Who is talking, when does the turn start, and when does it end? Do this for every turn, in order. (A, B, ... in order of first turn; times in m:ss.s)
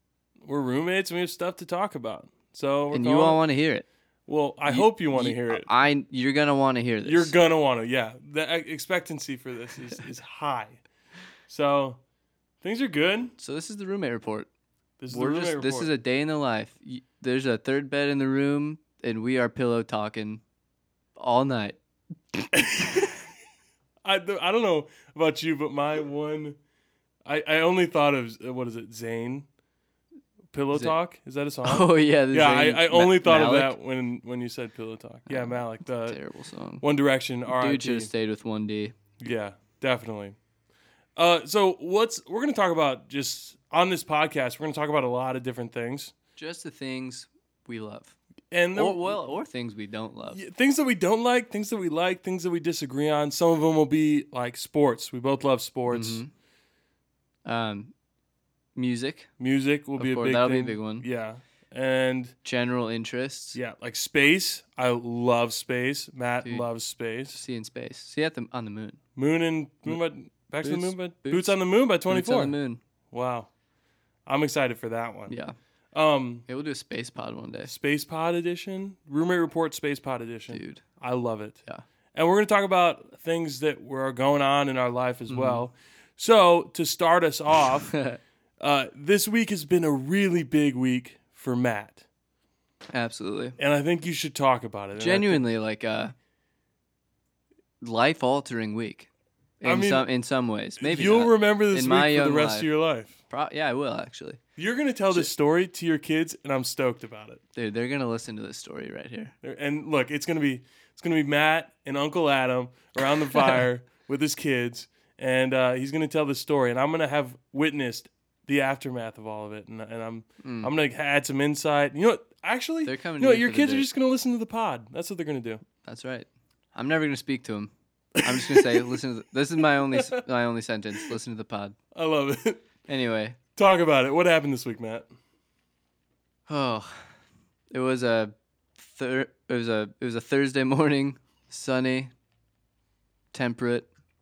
0:00.4-0:03.4 A
0:02.9-0:03.8 B
0:04.3-0:05.7 A
0:04.6-0:07.3 B
0:07.0-0:10.8 A
0:11.5-0:12.0 A
0:12.6-0:13.3 A
0:13.4-0:14.5 B
0:15.0-0:15.9 A
0:15.1-0:20.4 B
0:21.2-0:21.8 B
0:22.3-0:23.0 B
0:22.5-0:23.2 A
0:24.0-0:26.6 A
0:27.2-0:29.5 A
0:30.5-0:36.2 A
0:31.6-0:33.7 B
0:35.3-0:36.8 B
0:36.8-0:38.1 A
0:37.5-0:39.0 B
0:39.2-0:40.4 A
0:41.2-0:46.1 A
0:46.4-0:48.2 B
0:48.5-0:49.2 A
0:48.7-0:50.4 B
0:50.3-0:56.2 A
0:55.9-0:56.3 B
0:57.4-0:57.9 B
0:58.8-0:59.3 B
0:59.4-1:02.3 A
1:00.0-1:01.0 B
1:02.4-1:03.6 B
1:03.5-1:07.4 A
1:07.3-1:09.0 B
1:09.2-1:12.5 A
1:10.6-1:11.6 B
1:12.1-1:12.8 B
1:13.1-1:13.5 A
1:14.2-1:15.4 A
1:15.3-1:15.5 B
1:15.9-1:16.4 A
1:16.5-1:17.7 B
1:17.7-1:21.6 A
1:20.5-1:20.8 B
1:22.1-1:27.9 A
1:25.3-1:25.6 B
1:27.9-1:28.2 B
1:28.6-1:32.0 A
1:32.9-1:33.6 B
1:33.6-1:35.4 A
1:35.0-1:36.1 B
1:37.8-1:39.1 B
1:39.6-1:42.7 B
1:39.6-1:40.1 A
1:40.8-1:43.2 A
1:43.3-1:44.4 B
1:44.6-1:47.4 A
1:47.5-1:49.3 B
1:49.4-2:05.6 A
1:53.3-1:53.6 B
2:00.4-2:00.7 B
2:02.8-2:03.9 B
2:05.8-2:11.8 B
2:08.2-2:09.0 A
2:09.8-2:10.2 A
2:11.9-2:12.6 A
2:12.9-2:13.4 B
2:13.6-2:15.1 A
2:16.5-2:17.0 B
2:17.7-2:22.1 B
2:23.3-2:23.9 B